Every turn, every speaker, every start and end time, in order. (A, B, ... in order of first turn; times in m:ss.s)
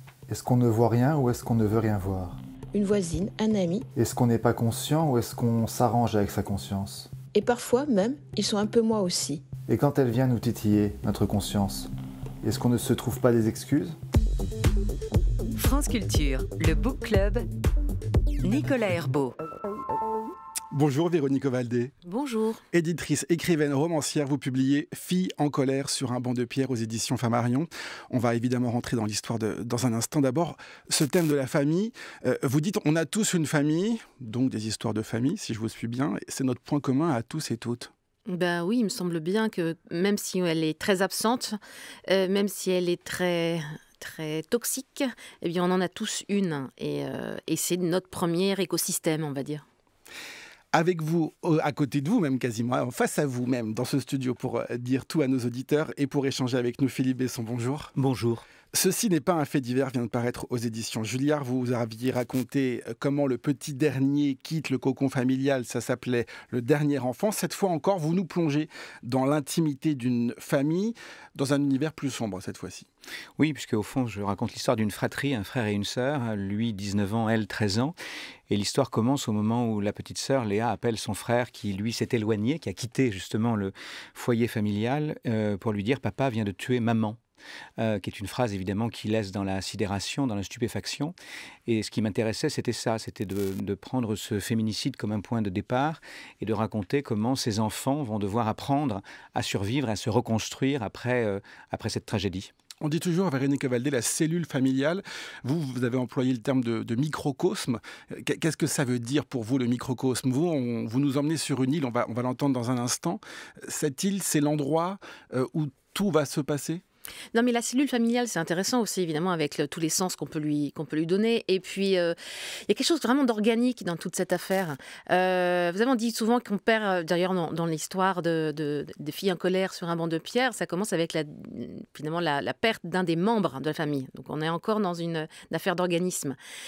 0:00.3-0:02.4 A
0:02.7-0:03.9 B
0:04.0-0:07.1 A
0:07.3-0:09.4 B
0:09.7-0:11.9 A
0:12.4-0:14.0 A
0:15.5-0:17.4 C
0:18.4-0:19.3 C
0:20.7-0:21.9 D
0:22.0-0:22.6 E
0:22.7-0:37.9 D
0:38.3-0:49.6 E
0:50.7-0:57.9 D
0:58.0-0:58.4 F
0:58.7-1:12.9 D
1:13.4-1:17.9 F
1:18.5-1:27.2 F
1:27.8-1:31.2 F
1:31.7-1:42.5 F
1:42.8-1:56.8 D
1:57.3-2:02.2 E
2:02.7-2:16.4 E